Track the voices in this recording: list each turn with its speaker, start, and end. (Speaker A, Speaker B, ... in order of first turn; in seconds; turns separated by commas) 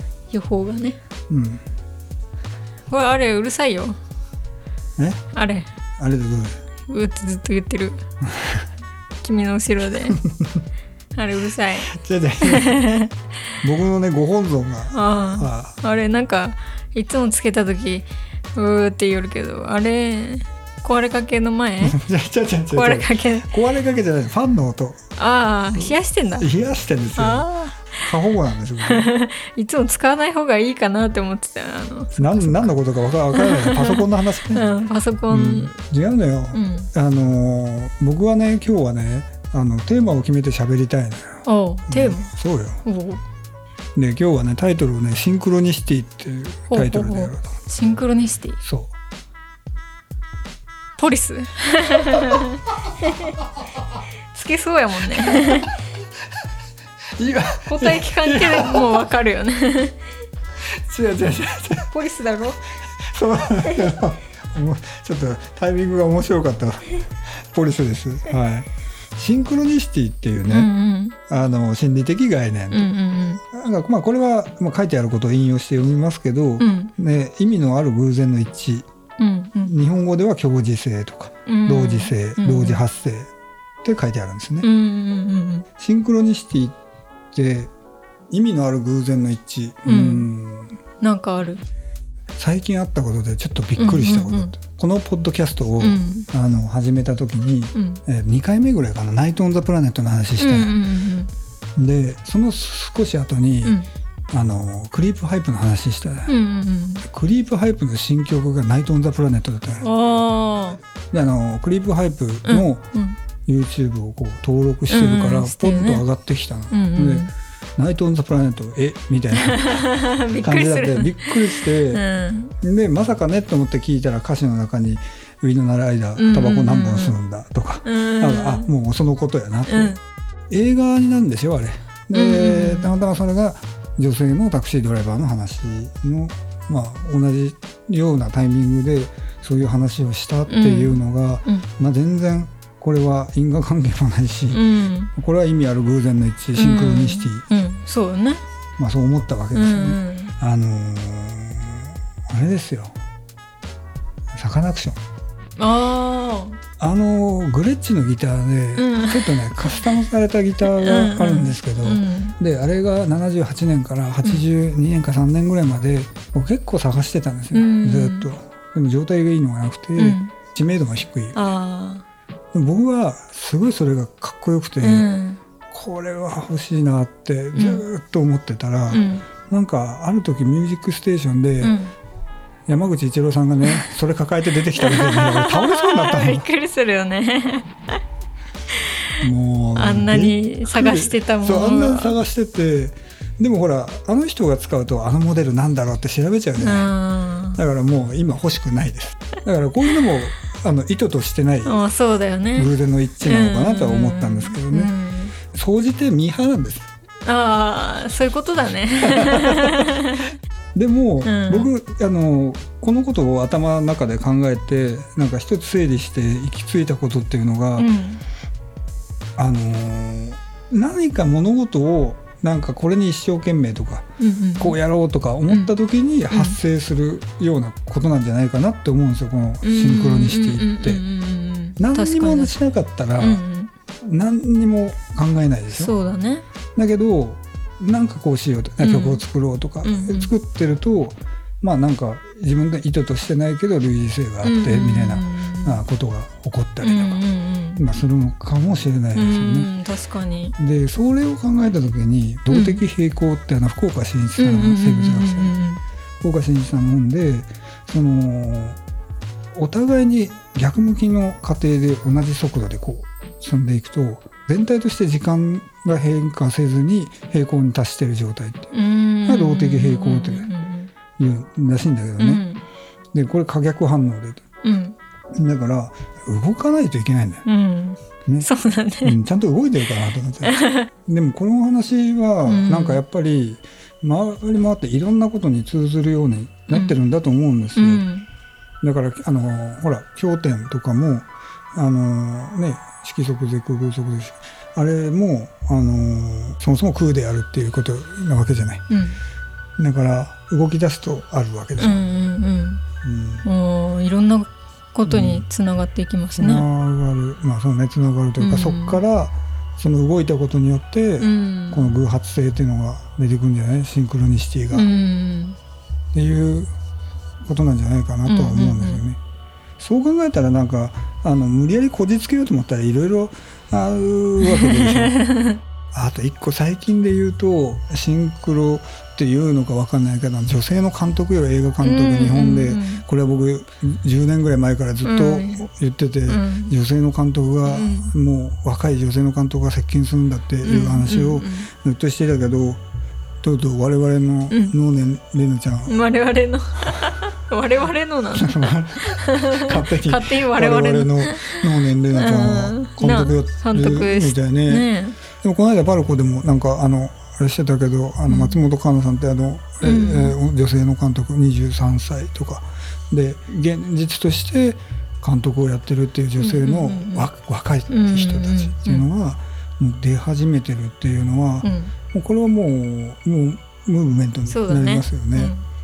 Speaker A: 0.3-1.0, Speaker B: 1.3-1.6, Speaker A: 2.9-4.0, Speaker B: 5.0-5.2, Speaker A: 5.3-5.7, Speaker B: 6.0-6.6, Speaker A: 6.9-8.0, Speaker B: 8.3-8.6, Speaker A: 9.2-10.2, Speaker B: 10.2-10.6, Speaker A: 11.1-11.9, Speaker B: 11.8-12.8, Speaker A: 12.4-13.1, Speaker B: 13.6-15.8, Speaker A: 14.9-22.0, Speaker B: 21.8-25.0, Speaker A: 22.7-23.5, Speaker A: 25.2-26.5, Speaker B: 25.7-29.1, Speaker A: 27.1-28.0, Speaker A: 28.8-32.7, Speaker B: 32.1-34.6, Speaker A: 33.3-35.7, Speaker B: 35.3-42.8, Speaker A: 36.5-36.9, Speaker A: 41.4-42.3, Speaker A: 42.8-43.2, Speaker B: 43.9-47.5, Speaker A: 46.7-48.6, Speaker B: 48.6-48.9, Speaker A: 51.0-53.4, Speaker A: 54.3-55.7, Speaker B: 57.2-59.0, Speaker A: 57.7-60.0, Speaker B: 60.8-61.9, Speaker A: 61.9-62.6, Speaker B: 63.1-70.7, Speaker A: 70.5-71.2, Speaker B: 71.3-72.9, Speaker A: 72.7-73.4, Speaker B: 73.5-78.9, Speaker A: 76.6-76.9, Speaker A: 79.2-79.7, Speaker B: 79.6-83.3, Speaker A: 81.5-82.8, Speaker B: 83.8-84.7, Speaker A: 84.6-85.7, Speaker B: 85.8-86.8, Speaker B: 87.3-87.7, Speaker B: 88.3-90.8, Speaker A: 89.8-90.3, Speaker A: 91.0-91.6, Speaker B: 92.4-100.8, Speaker A: 93.8-94.5, Speaker A: 95.8-96.3, Speaker A: 97.7-98.0, Speaker A: 100.4-101.3, Speaker B: 101.8-103.8, Speaker B: 104.3-106.3, Speaker A: 106.3-107.0, Speaker B: 107.0-109.9, Speaker A: 109.8-110.8, Speaker B: 111.1-112.9, Speaker A: 112.5-113.2, Speaker B: 113.5-122.0, Speaker A: 114.9-116.0, Speaker A: 116.7-117.3, Speaker A: 119.4-122.5, Speaker B: 122.6-130.0, Speaker A: 126.2-127.2, Speaker A: 127.8-128.7, Speaker A: 129.7-130.0, Speaker B: 130.5-147.4, Speaker A: 132.1-132.9, Speaker A: 140.5-141.6, Speaker A: 144.5-145.1, Speaker A: 146.6-148.4, Speaker B: 148.8-152.9, Speaker A: 149.5-150.3, Speaker B: 154.3-155.0, Speaker A: 155.6-156.6, Speaker B: 156.8-171.4, Speaker A: 158.8-159.9, Speaker A: 160.6-162.3, Speaker A: 167.5-168.3, Speaker A: 170.0-170.3, Speaker A: 171.3-172.0, Speaker B: 172.5-175.1, Speaker A: 174.8-175.4, Speaker B: 175.7-181.7, Speaker A: 177.5-177.8, Speaker A: 178.9-179.3, Speaker A: 181.6-181.9, Speaker B: 182.7-186.5, Speaker A: 184.8-187.8, Speaker B: 189.2-196.9, Speaker A: 189.7-192.1, Speaker A: 196.6-197.6, Speaker B: 197.5-201.8, Speaker A: 201.6-202.7, Speaker B: 202.6-206.9, Speaker A: 203.2-205.3, Speaker A: 207.2-210.3, Speaker B: 209.0-209.9, Speaker B: 210.7-217.9, Speaker A: 211.2-211.7, Speaker A: 217.8-218.2, Speaker B: 219.4-224.1, Speaker A: 224.2-224.8, Speaker B: 224.6-231.0, Speaker A: 226.3-226.6, Speaker A: 229.6-232.6, Speaker B: 231.8-233.4, Speaker A: 233.2-233.7, Speaker B: 234.0-235.9, Speaker A: 235.7-236.4, Speaker B: 236.8-247.2, Speaker A: 238.8-239.2, Speaker A: 239.8-240.3, Speaker A: 244.4-245.8, Speaker A: 246.8-247.8, Speaker B: 247.8-249.7, Speaker A: 249.1-250.6, Speaker B: 250.6-255.6, Speaker A: 252.5-252.8, Speaker A: 254.4-255.8, Speaker B: 256.2-258.8, Speaker B: 259.5-268.7, Speaker A: 268.7-270.9, Speaker B: 269.2-270.5, Speaker B: 271.1-272.4, Speaker A: 272.2-272.6, Speaker B: 273.1-274.4, Speaker A: 274.6-274.9, Speaker B: 275.3-277.4, Speaker A: 277.4-279.2, Speaker B: 279.0-288.1, Speaker A: 280.4-280.9, Speaker A: 282.4-283.0, Speaker A: 287.8-288.2, Speaker B: 288.8-298.9, Speaker A: 298.9-299.2, Speaker B: 299.8-302.1, Speaker A: 301.8-302.8, Speaker B: 303.0-303.4, Speaker A: 303.4-306.6, Speaker B: 305.1-305.4, Speaker B: 306.4-314.9, Speaker A: 308.4-309.0, Speaker A: 311.2-311.9, Speaker A: 314.7-315.6, Speaker B: 316.1-316.7, Speaker B: 317.4-319.2, Speaker A: 318.3-319.0, Speaker B: 319.8-325.2, Speaker A: 324.4-325.6, Speaker B: 325.9-342.8, Speaker A: 331.8-333.0, Speaker A: 335.0-335.6, Speaker A: 336.3-336.7, Speaker A: 337.6-338.1, Speaker A: 340.6-341.7, Speaker B: 343.4-346.0, Speaker A: 344.5-344.7, Speaker A: 345.9-355.2, Speaker B: 348.3-375.5, Speaker A: 358.3-358.6, Speaker A: 359.8-360.4, Speaker A: 366.4-367.3, Speaker A: 367.9-369.0, Speaker A: 371.6-371.9, Speaker A: 374.5-375.6